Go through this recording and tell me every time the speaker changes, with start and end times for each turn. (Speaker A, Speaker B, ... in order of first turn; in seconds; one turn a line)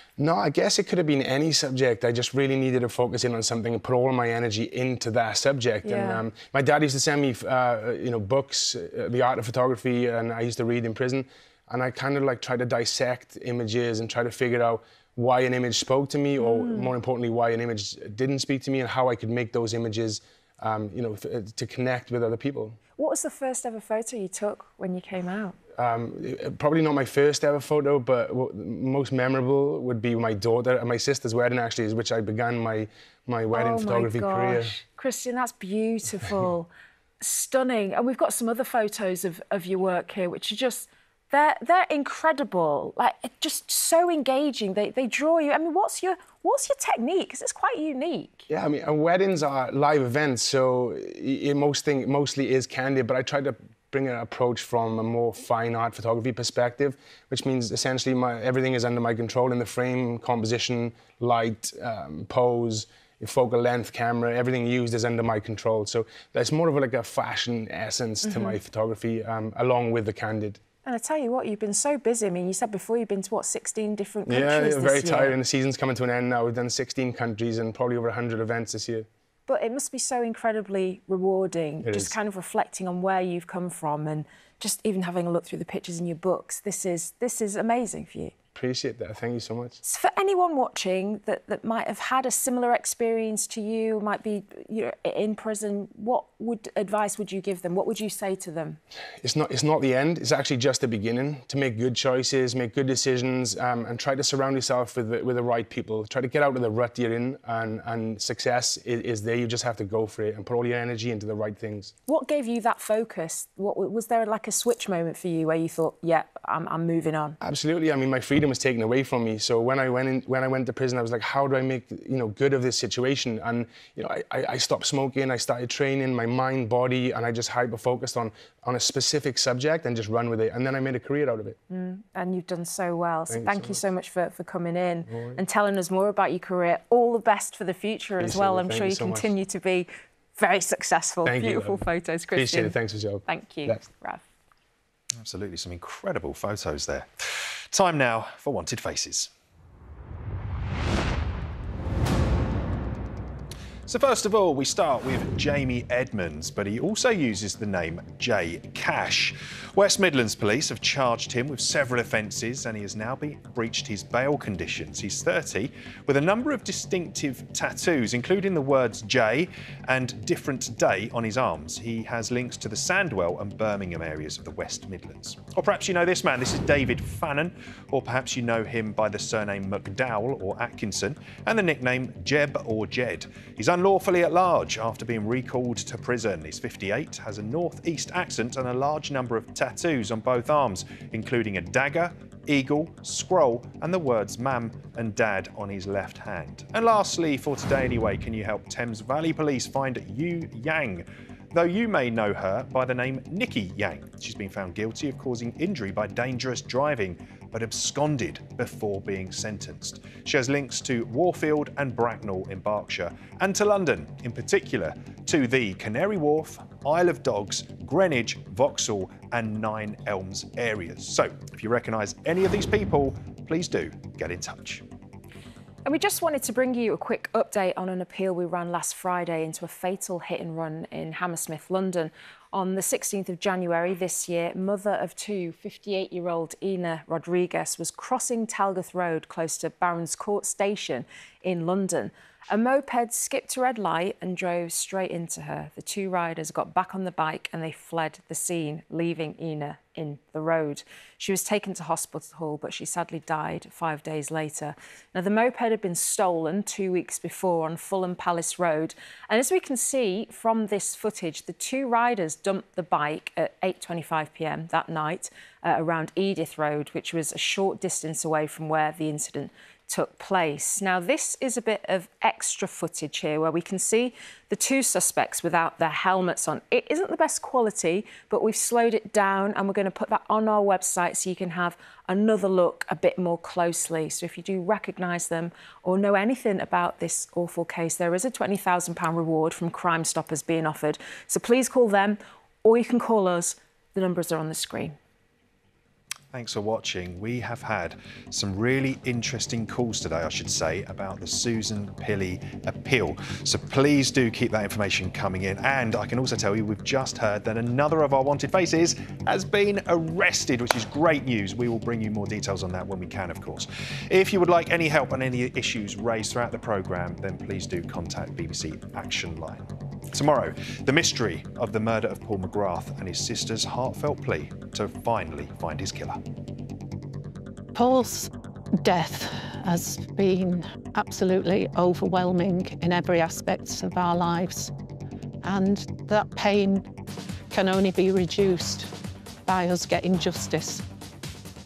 Speaker A: 0.2-22.8
Speaker B: 5.8-6.2
Speaker B: 16.4-16.9
Speaker B: 23.0-25.6
Speaker A: 25.8-34.8
Speaker B: 33.5-36.7
Speaker B: 37.2-48.5
Speaker A: 48.5-70.6
Speaker B: 68.2-68.6
Speaker B: 70.8-75.4
Speaker A: 74.3-79.1
Speaker B: 79.5-88.3
Speaker A: 81.8-82.2
Speaker A: 88.5-89.8
Speaker B: 89.8-98.8
Speaker A: 99.2-111.9
Speaker B: 112.1-117.4
Speaker A: 117.4-131.6
Speaker B: 131.7-144.2
Speaker A: 133.3-133.8
Speaker A: 135.1-135.4
Speaker A: 138.2-139.3
Speaker A: 141.2-143.9
Speaker C: 145.2-149.3
Speaker C: 153.9-224.8
Speaker B: 225.8-295.0
Speaker C: 296.3-326.2
Speaker D: 327.7-334.7
Speaker D: 335.4-336.9
Speaker D: 337.5-338.9
Speaker D: 339.5-340.9